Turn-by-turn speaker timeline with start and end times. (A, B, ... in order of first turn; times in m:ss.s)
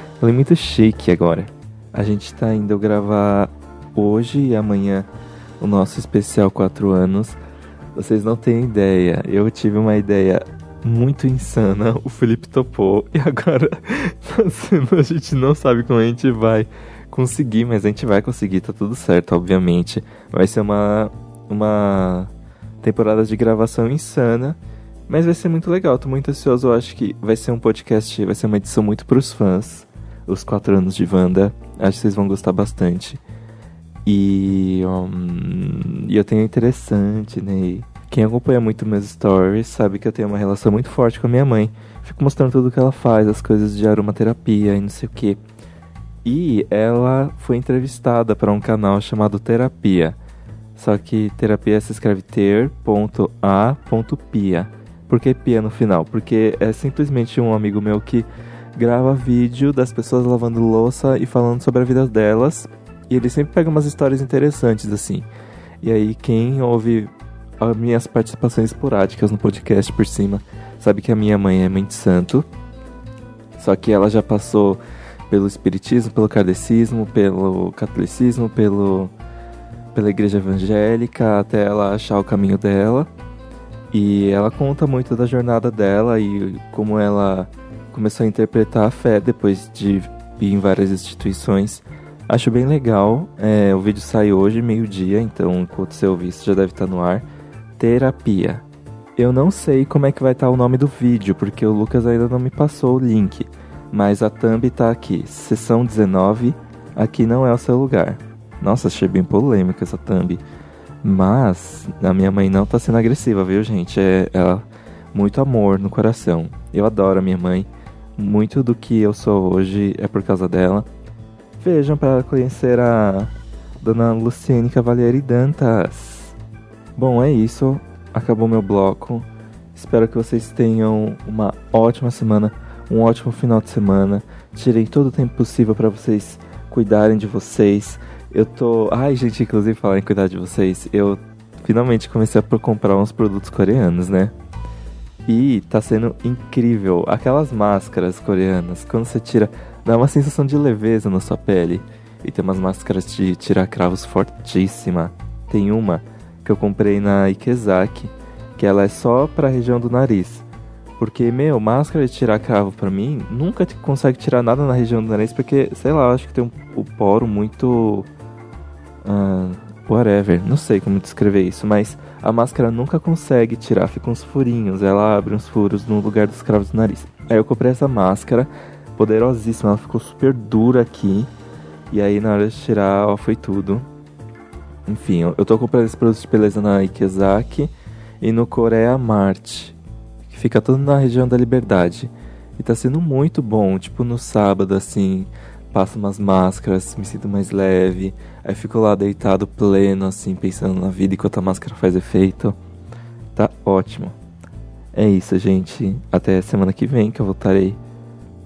0:00.2-0:05.1 A
0:05.6-0:07.4 A
0:08.0-0:22.3 A
0:22.8-0:24.6 A
0:25.1-0:33.2 A
0:34.1-0:45.4 A
0:46.2-0:50.2 A
0:50.8-1:05.3 A
1:05.8-1:12.4 A
1:13.6-1:19.1 A
1:19.9-1:23.1 A
1:23.9-1:37.2 A
1:37.8-1:38.6 A
1:39.2-1:50.4 A
1:51.0-2:00.9 A
2:01.6-2:06.4 A
2:07.0-2:24.3 A
2:25.3-2:40.4 A
2:41.0-2:48.1 A
2:49.0-3:01.3 A
3:01.9-3:03.8 A
3:04.9-3:09.8 A
3:10.3-3:22.6 A
3:23.4-3:24.1 A
3:24.9-3:27.8 A